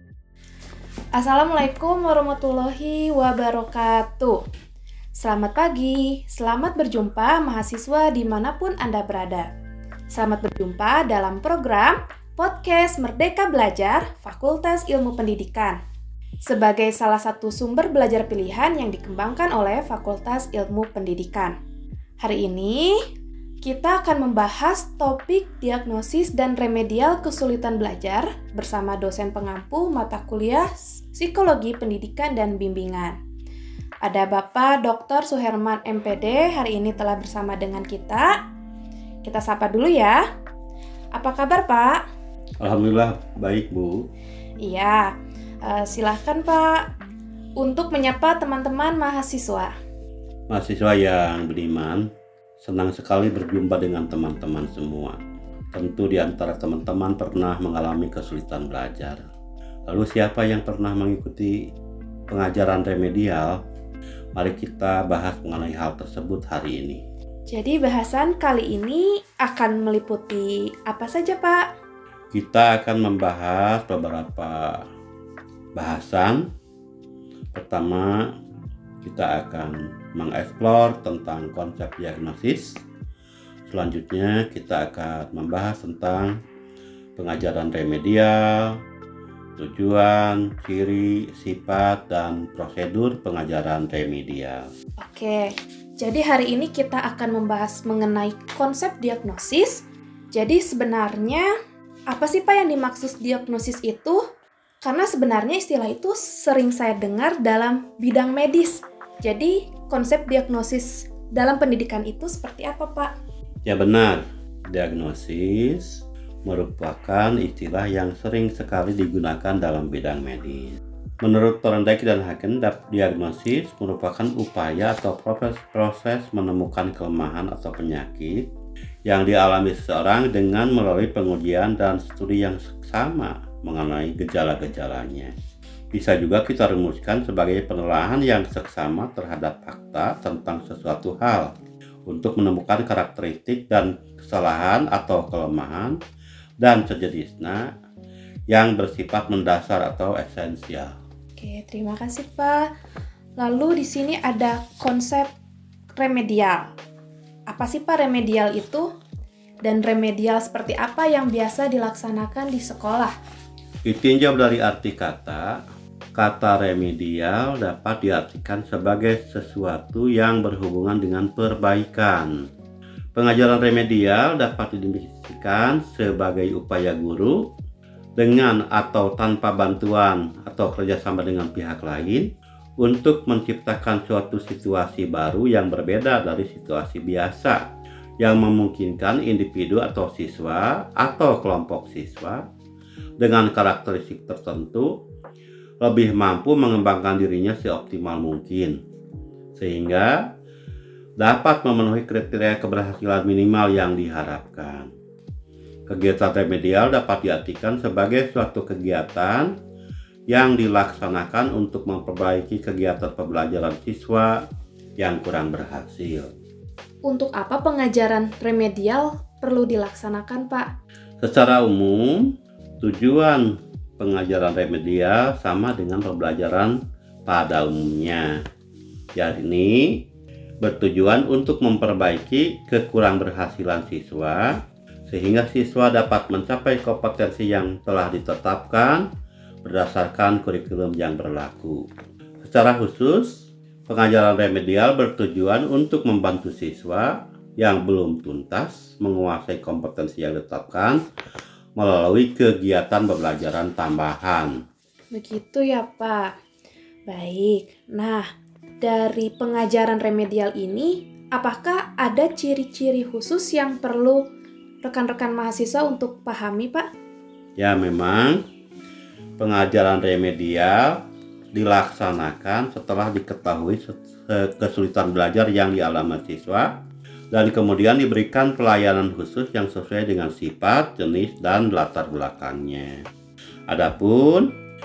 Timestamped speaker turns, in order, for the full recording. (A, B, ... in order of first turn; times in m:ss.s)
0:01.1-0:04.4 A
0:05.1-0:09.5 A
0:10.1-0:15.8 A
0:16.4-0:21.5 A
0:22.2-0:23.0 A
0:23.6-0:33.2 A
0:34.0-0:38.3 A
0:39.2-0:40.2 A
0:41.1-0:42.0 A
0:42.6-0:44.0 B
0:44.6-0:45.1 A
0:45.6-0:46.8 A
0:47.6-0:49.7 A
0:50.5-0:52.0 B
0:52.6-0:55.2 B
0:55.7-0:59.3 B
0:59.9-1:01.6 B
1:02.3-1:03.6 B
1:04.4-1:07.0 B
1:07.5-1:11.6 A
1:12.3-1:14.8 B
1:15.8-1:16.5 B
1:17.5-1:18.3 B
1:19.0-1:22.8 B
1:23.7-1:26.3 B
1:27.2-1:28.8 B
1:29.6-1:34.7 B
1:35.0-1:41.5 A
1:42.1-1:44.2 A
1:44.8-1:53.1 A
1:53.6-2:08.4 B
2:09.0-2:15.3 B
2:15.9-2:21.5 B
2:22.1-2:26.0 B
2:26.6-2:27.7 B
2:28.5-2:30.9 B
2:31.4-2:32.7 A
2:33.4-2:35.3 A
2:35.9-2:36.7 A
2:37.5-2:38.9 A
2:39.6-2:43.1 A
2:43.8-2:45.6 B
2:46.1-2:52.3 B
2:53.1-2:57.5 B
2:58.2-3:02.3 B
3:02.8-3:07.6 B
3:08.2-3:12.4 B
3:13.2-3:15.0 B
3:15.8-3:18.8 B
3:19.6-3:20.3 B
3:21.2-3:24.9 B
3:25.9-3:29.5 B
3:30.3-3:34.4 B
3:35.0-3:36.3 B
3:37.0-3:40.7 A
3:41.2-3:42.3 B
3:42.8-3:48.4 B
3:49.1-3:50.0 B
3:50.6-3:59.1 B
3:59.6-4:01.8 B
4:02.4-4:11.0 B
4:11.8-4:14.5 B
4:15.1-4:16.3 A
4:17.1-4:18.2 A
4:18.8-4:24.2 A
4:24.8-4:26.8 A
4:27.6-4:28.4 B
4:29.4-4:31.0 B
4:31.5-4:36.7 B
4:37.3-4:43.0 B
4:43.7-4:44.5 B